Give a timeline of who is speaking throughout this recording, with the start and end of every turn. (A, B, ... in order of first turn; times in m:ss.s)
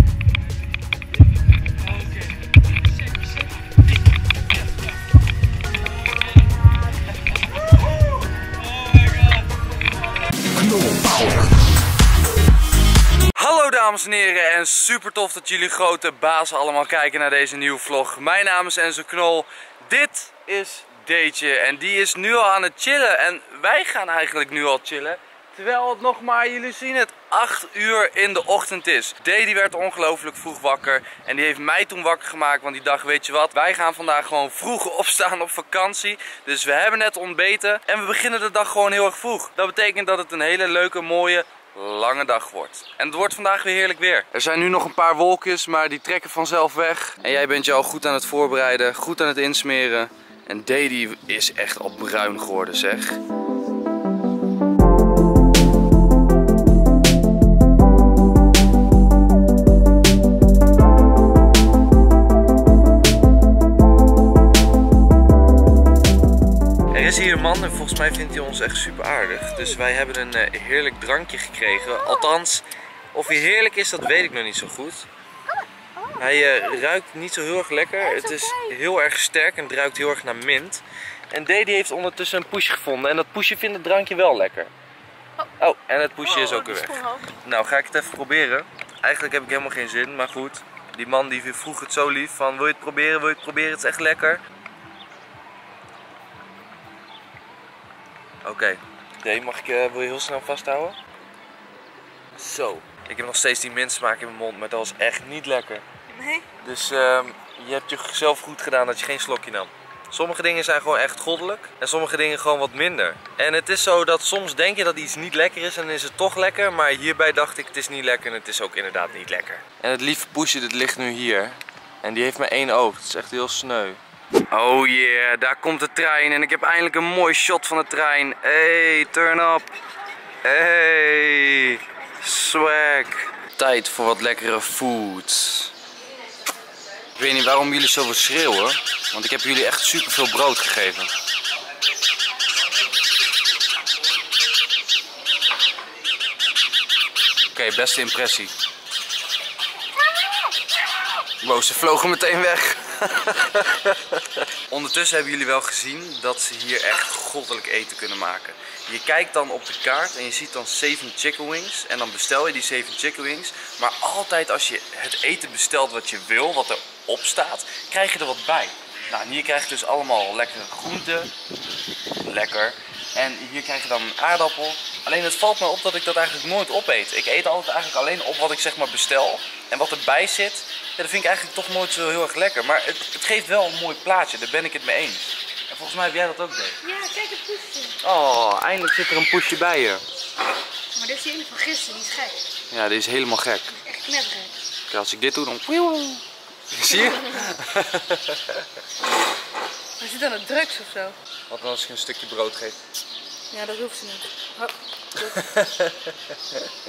0:01.8-0:02.4 A
0:03.1-0:03.5 A
0:08.4-0:09.5 A
0:13.4-0:53.2 A
1:06.9-1:15.1 A
1:16.2-1:24.7 A
1:18.0-1:18.8 B
1:25.6-1:34.4 A
1:26.2-1:27.3 B
1:38.4-1:41.0 A
1:42.4-1:45.8 A
1:46.1-1:46.5 B
1:46.6-2:04.0 A
2:04.5-2:09.7 A
2:10.4-2:15.7 A
2:17.2-2:21.1 A
2:27.5-2:28.5 A
2:31.4-2:51.3 A
2:52.2-3:06.8 A
3:06.8-3:08.0 B
3:08.0-3:10.0 A
3:10.9-3:12.4 B
3:12.7-3:13.7 A
3:13.7-3:14.5 B
3:14.9-3:18.6 A
3:20.0-3:21.2 B
3:21.5-3:22.8 A
3:23.5-3:25.4 B
3:25.3-3:26.1 A